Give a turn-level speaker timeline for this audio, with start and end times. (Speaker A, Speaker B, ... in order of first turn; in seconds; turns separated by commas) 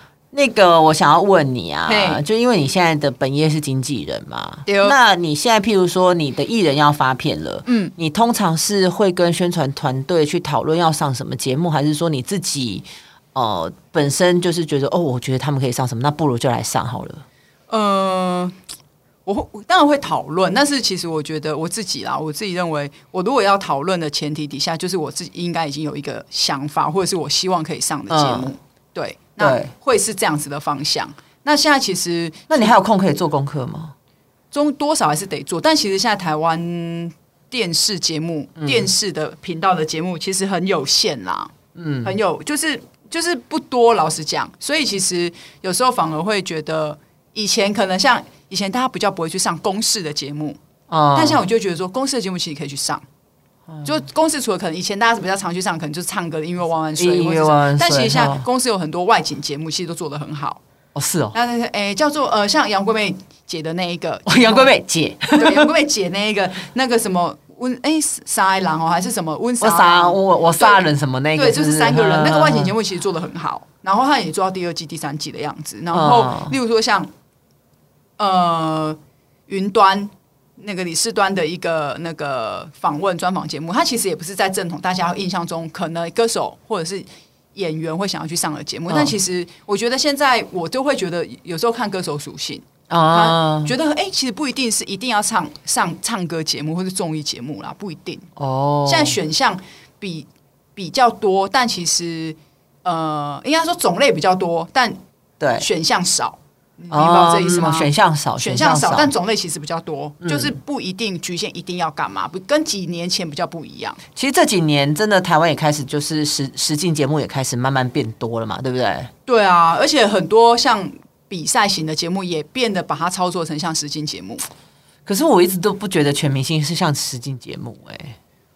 Speaker A: 0.3-17.2, Speaker B: 1.9-2.2, Speaker B: 4.7-4.9, Speaker B: 7.7-7.9, Speaker B: 17.7-18.5, Speaker B: 19.2-32.7, Speaker A: 28.1-28.5, Speaker A: 29.4-29.7, Speaker A: 32.5-33.9, Speaker B: 34.5-41.5, Speaker A: 38.6-38.9, Speaker A: 41.7-42.2, Speaker B: 42.0-50.6, Speaker A: 50.9-51.4, Speaker B: 51.1-53.0, Speaker B: 53.8-60.6, Speaker A: 57.0-58.4, Speaker A: 60.9-61.4, Speaker B: 61.3-64.7, Speaker A: 64.3-65.7, Speaker B: 65.3-77.1, Speaker A: 69.6-72.7, Speaker A: 75.9-76.5, Speaker B: 78.2-98.2, Speaker A: 88.9-89.2, Speaker A: 92.9-93.7, Speaker A: 98.4-99.2, Speaker B: 98.8-105.0, Speaker A: 105.4-105.7, Speaker B: 105.6-114.0, Speaker A: 106.9-109.1, Speaker A: 110.2-110.6, Speaker A: 114.2-119.1, Speaker B: 119.3-124.4, Speaker A: 125.0-128.2